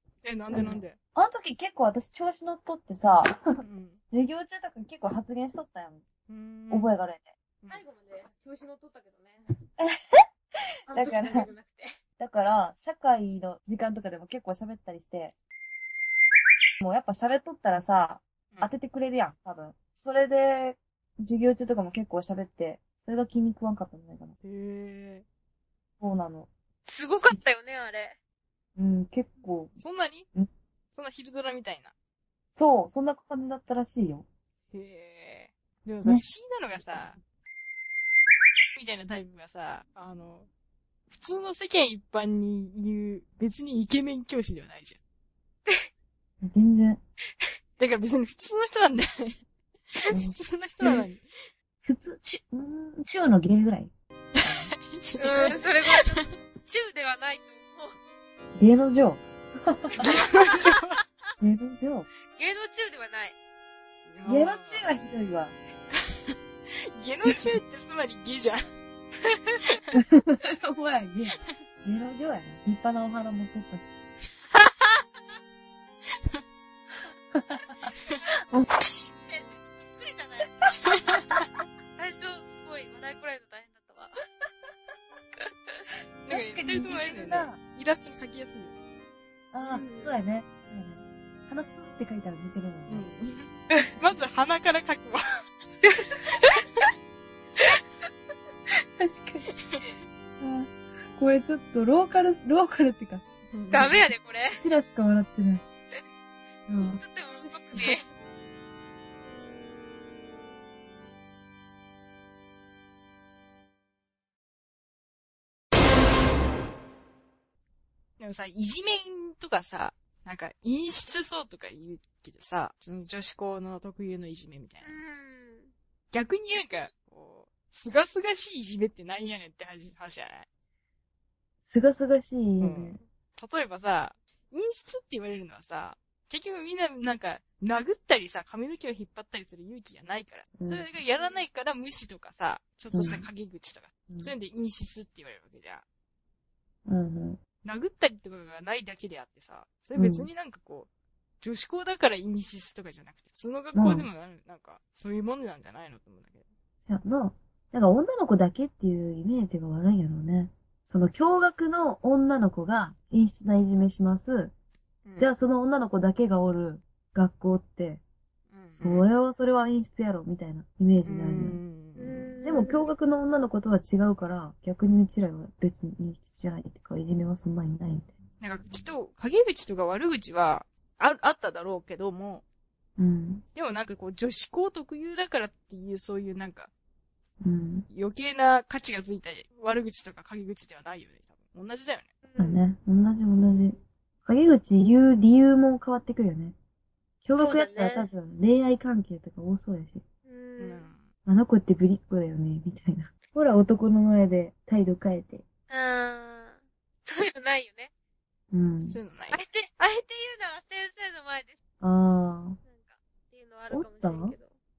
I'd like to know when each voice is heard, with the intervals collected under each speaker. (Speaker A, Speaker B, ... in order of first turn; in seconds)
Speaker A: 0.2-1.0, 3.6-4.0, 6.3-7.0, 24.4-25.2, 29.8-30.3, 30.9-31.9, 34.7-37.2, 38.8-40.5, 41.1-45.0, 47.8-49.4, 50.0-51.2, 54.4-56.3, 60.0-61.0, 64.1-64.9, 67.0-68.6, 86.3-88.7, 92.9-95.2, 103.5-104.0, 118.2-125.0, 126.1-130.5, 132.6-145.8, 147.6-150.9, 151.4-156.4, 165.1-165.3, 168.5-169.1, 171.0-172.4, 178.4-182.4, 183.6-186.7, 187.9-192.1, 200.6-201.1, 208.9-209.4
Speaker B: 0.5-3.5, 4.1-6.0, 6.7-7.3, 9.8-10.2, 10.9-11.5, 12.2-15.3, 16.8-24.4, 26.0-26.5, 28.8-29.8, 32.6-34.3, 46.4-47.0, 50.1-51.1, 51.8-53.9, 54.4-54.7, 58.6-60.2, 61.4-62.1, 64.2-65.6, 69.9-73.9, 77.3-77.9, 86.3-87.6, 89.5-93.1, 99.0-99.5, 100.4-103.2, 104.6-105.7, 106.7-107.0, 107.7-108.0, 131.7-133.0, 140.6-140.9, 142.9-143.3, 146.9-147.4, 149.9-150.3, 153.7-154.1, 156.9-164.5, 165.2-168.0, 168.8-171.6, 172.4-178.1, 183.0-183.4, 187.4-187.9, 192.4-196.6, 197.2-200.0, 201.3-205.4, 208.5-209.0, 211.8-212.6, 213.7-214.4
Speaker C: 7.7-9.4, 10.9-11.9, 26.9-28.2, 55.2-58.0, 60.0-60.5, 62.3-63.4, 74.5-75.0, 78.8-81.0, 82.0-84.1, 85.4-85.8, 89.6-90.2, 95.8-96.8, 103.7-104.6, 106.8-108.0, 124.8-125.7, 172.0-172.9, 192.2-192.6, 197.3-198.1, 200.3-200.9, 205.7-207.9, 209.3-211.6, 212.6-214.5